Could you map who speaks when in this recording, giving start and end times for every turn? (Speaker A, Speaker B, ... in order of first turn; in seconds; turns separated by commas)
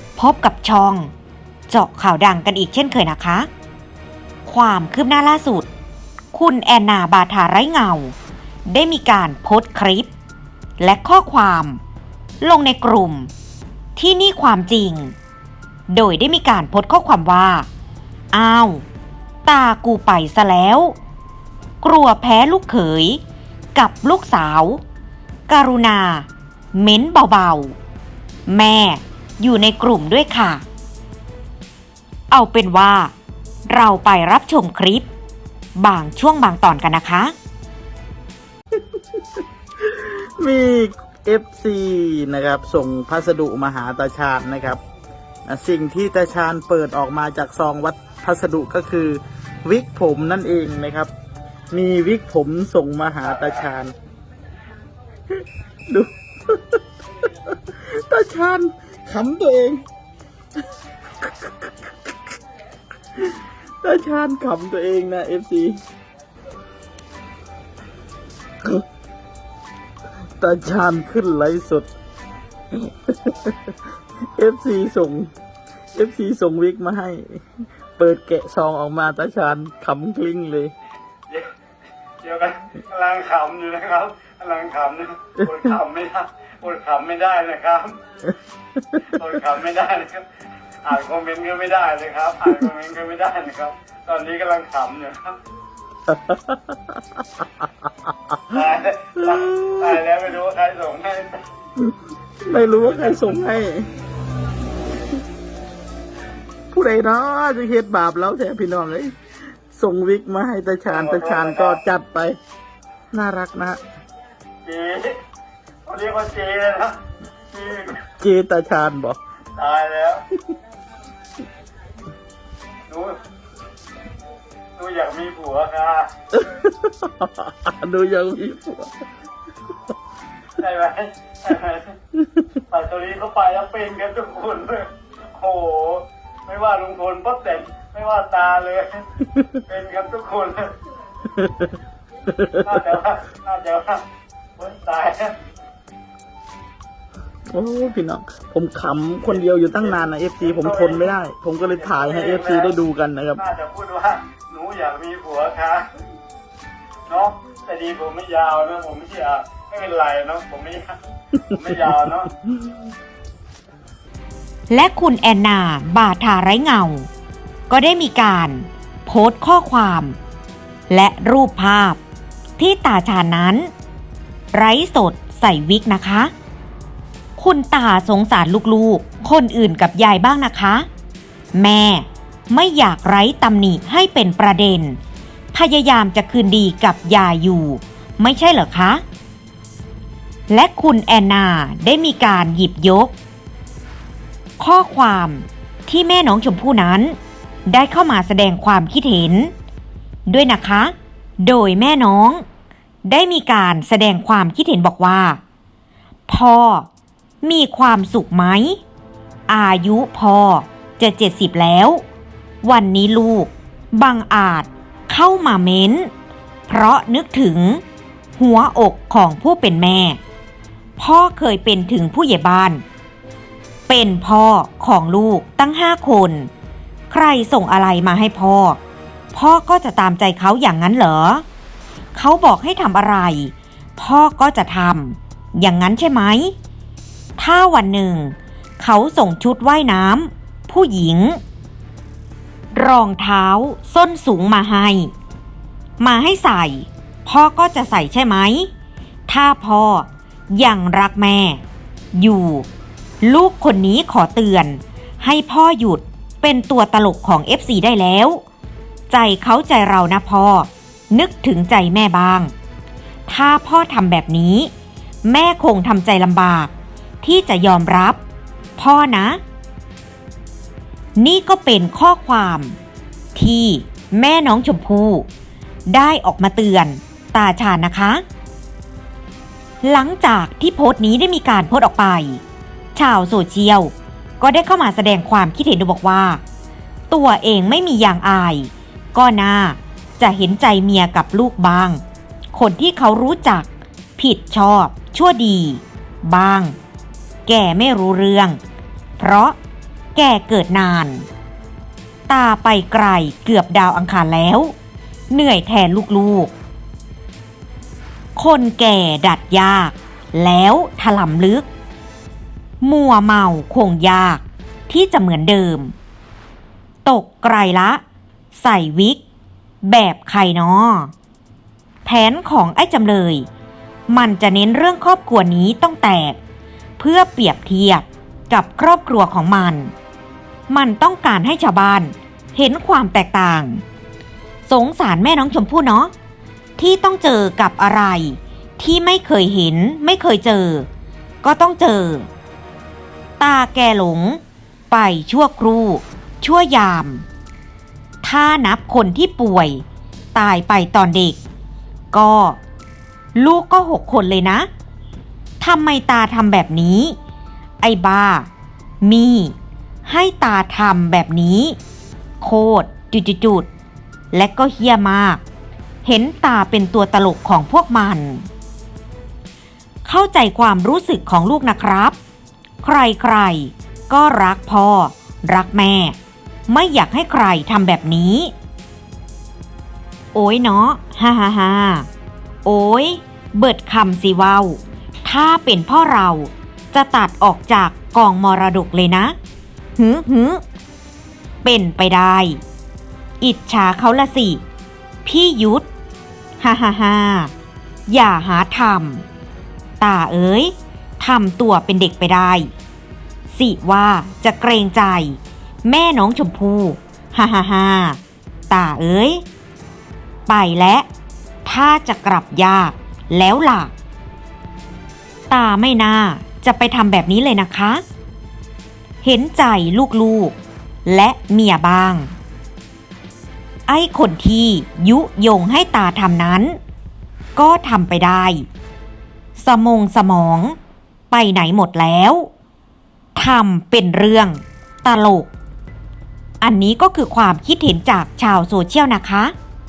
Speaker A: 0.1-1.1, Speaker A: 1.7-3.5, Speaker A: 4.4-5.7, Speaker A: 6.3-8.1, Speaker A: 8.7-10.1, Speaker A: 10.8-11.8, Speaker A: 12.4-13.3, Speaker A: 13.9-15.1, Speaker A: 15.9-17.7, Speaker A: 18.3-18.8, Speaker A: 19.4-20.9, Speaker A: 21.8-23.2, Speaker A: 23.7-24.8, Speaker A: 25.5-27.8, Speaker A: 28.5-30.6, Speaker A: 32.3-33.1, Speaker A: 33.7-35.1, Speaker A: 35.8-37.3, Speaker B: 39.8-44.8, Speaker B: 45.5-51.1, Speaker B: 51.7-53.9, Speaker B: 55.9-56.8, Speaker B: 57.6-59.8, Speaker B: 61.3-61.9, Speaker B: 63.2-65.8, Speaker B: 70.4-71.9, Speaker B: 73.1-73.6, Speaker B: 74.3-75.3, Speaker B: 75.9-77.4, Speaker B: 78.0-80.7, Speaker C: 82.2-88.0, Speaker C: 89.1-90.3, Speaker C: 90.8-95.4, Speaker B: 96.1-96.7, Speaker C: 98.5-101.4, Speaker B: 99.2-100.0, Speaker B: 101.8-103.9, Speaker C: 102.6-103.4, Speaker B: 106.7-109.1, Speaker B: 109.7-112.4, Speaker C: 110.9-111.8, Speaker B: 113.1-113.8, Speaker C: 114.6-115.2, Speaker C: 115.8-117.0, Speaker C: 117.5-118.0, Speaker B: 118.2-119.2, Speaker C: 119.5-120.2, Speaker C: 122.9-123.2, Speaker C: 124.8-126.1, Speaker B: 126.3-128.9, Speaker C: 130.6-131.9, Speaker C: 132.7-139.1, Speaker C: 139.7-140.7, Speaker B: 141.4-141.7, Speaker B: 142.3-142.8, Speaker C: 142.6-144.0, Speaker C: 144.6-145.4, Speaker B: 147.5-153.4, Speaker C: 149.8-151.1, Speaker C: 151.7-152.7, Speaker C: 153.4-155.9, Speaker C: 157.1-162.3, Speaker A: 164.7-167.1, Speaker A: 167.7-170.2, Speaker A: 170.9-172.0, Speaker A: 172.6-173.7, Speaker A: 174.5-176.3, Speaker A: 177.4-180.9, Speaker A: 181.5-185.0, Speaker A: 185.5-189.0, Speaker A: 190.5-193.1, Speaker A: 194.6-197.2, Speaker A: 197.7-199.5, Speaker A: 200.3-202.4, Speaker A: 203.1-205.4, Speaker A: 206.3-206.9, Speaker A: 207.4-208.8, Speaker A: 209.5-212.0, Speaker A: 212.6-216.1, Speaker A: 216.7-217.8, Speaker A: 218.3-220.2, Speaker A: 221.0-222.8, Speaker A: 223.9-226.5, Speaker A: 227.1-228.8, Speaker A: 229.3-231.4, Speaker A: 232.1-236.5, Speaker A: 237.4-241.4, Speaker A: 242.7-245.1, Speaker A: 246.0-248.7, Speaker A: 249.3-251.6, Speaker A: 252.1-252.7, Speaker A: 253.2-258.4, Speaker A: 259.1-262.5, Speaker A: 263.3-264.7, Speaker A: 265.2-266.7, Speaker A: 267.2-268.2, Speaker A: 268.8-269.4, Speaker A: 271.2-272.8, Speaker A: 273.3-275.3, Speaker A: 275.9-278.2, Speaker A: 279.8-282.4, Speaker A: 282.9-286.4, Speaker A: 287.1-292.0, Speaker A: 292.5-296.8, Speaker A: 297.4-298.6, Speaker A: 299.2-299.6, Speaker A: 300.1-301.3, Speaker A: 302.3-304.7, Speaker A: 305.3-306.5, Speaker A: 308.4-311.6, Speaker A: 312.8-315.9, Speaker A: 317.0-318.0, Speaker A: 318.5-319.2, Speaker A: 319.8-321.1, Speaker A: 322.0-323.5, Speaker A: 324.1-326.4, Speaker A: 327.0-329.9, Speaker A: 330.7-333.8, Speaker A: 334.6-336.1, Speaker A: 336.8-340.9, Speaker A: 341.4-342.3, Speaker A: 343.4-347.2, Speaker A: 348.2-349.8, Speaker A: 350.3-351.4, Speaker A: 352.1-352.6, Speaker A: 353.3-354.7, Speaker A: 355.6-357.2, Speaker A: 357.8-358.5, Speaker A: 359.0-361.8, Speaker A: 362.4-363.7, Speaker A: 364.3-365.4, Speaker A: 366.0-368.5, Speaker A: 370.0-372.2, Speaker A: 372.8-376.1, Speaker A: 376.7-378.5, Speaker A: 380.3-382.1, Speaker A: 382.6-389.4, Speaker A: 389.9-390.6, Speaker A: 391.6-392.6, Speaker A: 393.4-394.6, Speaker A: 395.2-395.9, Speaker A: 396.6-397.5, Speaker A: 398.1-399.2, Speaker A: 400.0-402.7, Speaker A: 403.5-409.4, Speaker A: 410.5-411.1, Speaker A: 411.6-413.9, Speaker A: 415.5-418.0, Speaker A: 419.2-422.3, Speaker A: 423.9-426.8, Speaker A: 427.5-428.7, Speaker A: 429.6-430.8, Speaker A: 431.3-432.5, Speaker A: 433.3-435.5, Speaker A: 436.6-439.5